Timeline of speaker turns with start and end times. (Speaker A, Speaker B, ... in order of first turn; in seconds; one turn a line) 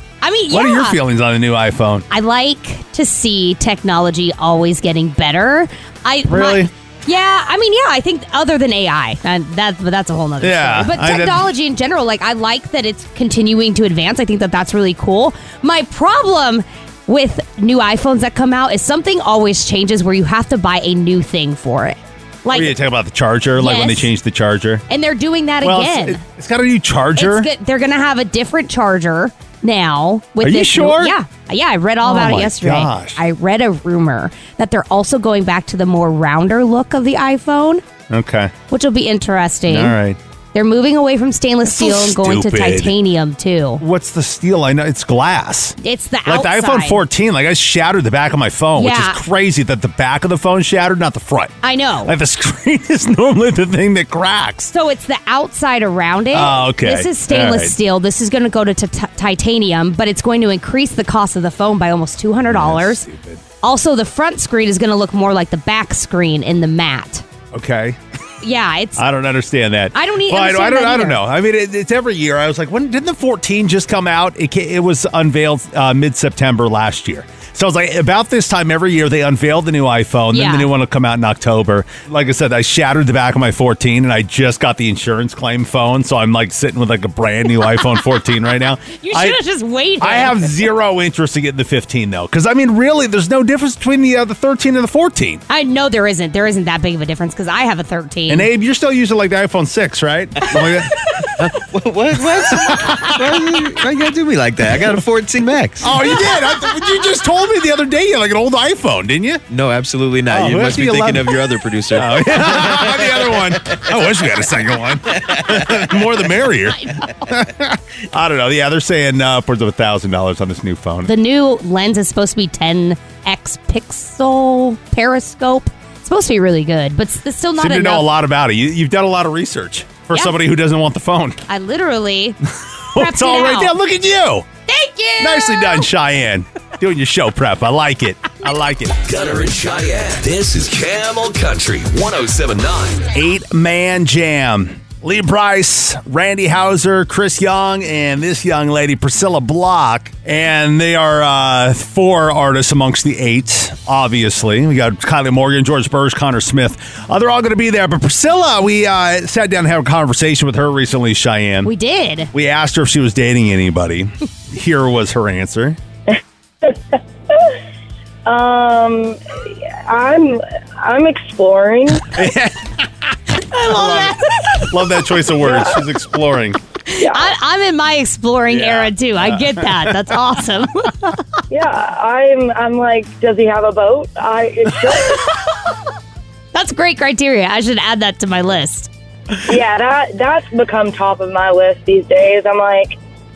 Speaker A: 0.2-1.0
Speaker B: 0.5-2.1
Speaker A: 2.1-22.7
Speaker B: 6.3-6.7
Speaker B: 10.4-11.5
Speaker B: 22.5-24.8
Speaker A: 23.6-24.1
Speaker A: 24.9-26.2
Speaker B: 25.6-27.5
Speaker A: 27.2-37.8
Speaker B: 30.4-31.1
Speaker B: 32.0-33.2
Speaker B: 38.1-38.5
Speaker A: 38.7-40.0
Speaker B: 39.7-40.2
Speaker A: 40.5-43.8
Speaker B: 41.6-42.9
Speaker B: 43.8-54.7
Speaker A: 45.8-47.0
Speaker A: 48.8-49.2
Speaker A: 51.6-52.1
Speaker A: 54.7-63.0
Speaker B: 56.3-57.7
Speaker B: 62.5-63.4
Speaker A: 63.6-67.2
Speaker B: 67.5-68.0
Speaker A: 68.4-69.0
Speaker B: 69.0-89.4
Speaker A: 69.9-71.2
Speaker A: 80.3-80.7
Speaker A: 89.0-90.7
Speaker B: 90.0-95.4
Speaker A: 95.5-98.5
Speaker B: 98.3-100.9
Speaker C: 101.4-105.9
Speaker B: 102.3-103.1
Speaker B: 105.8-109.4
Speaker C: 109.5-113.8
Speaker B: 110.3-111.3
Speaker B: 111.9-121.1
Speaker C: 115.2-115.6
Speaker A: 116.8-117.1
Speaker A: 121.0-128.1
Speaker B: 127.6-131.4
Speaker A: 131.5-132.4
Speaker B: 132.9-134.4
Speaker A: 132.9-133.7
Speaker A: 134.7-135.8
Speaker B: 135.2-139.0
Speaker D: 139.0-143.1
Speaker B: 143.1-161.7
Speaker A: 161.6-162.3
Speaker B: 162.3-165.8
Speaker E: 168.2-172.2
Speaker B: 172.1-172.7
Speaker A: 173.5-174.7
Speaker B: 173.7-176.6
Speaker E: 175.4-175.8
Speaker A: 176.9-181.2
Speaker E: 177.0-177.3
Speaker B: 178.5-180.1
Speaker E: 181.5-185.3
Speaker A: 186.5-188.9
Speaker E: 189.4-193.0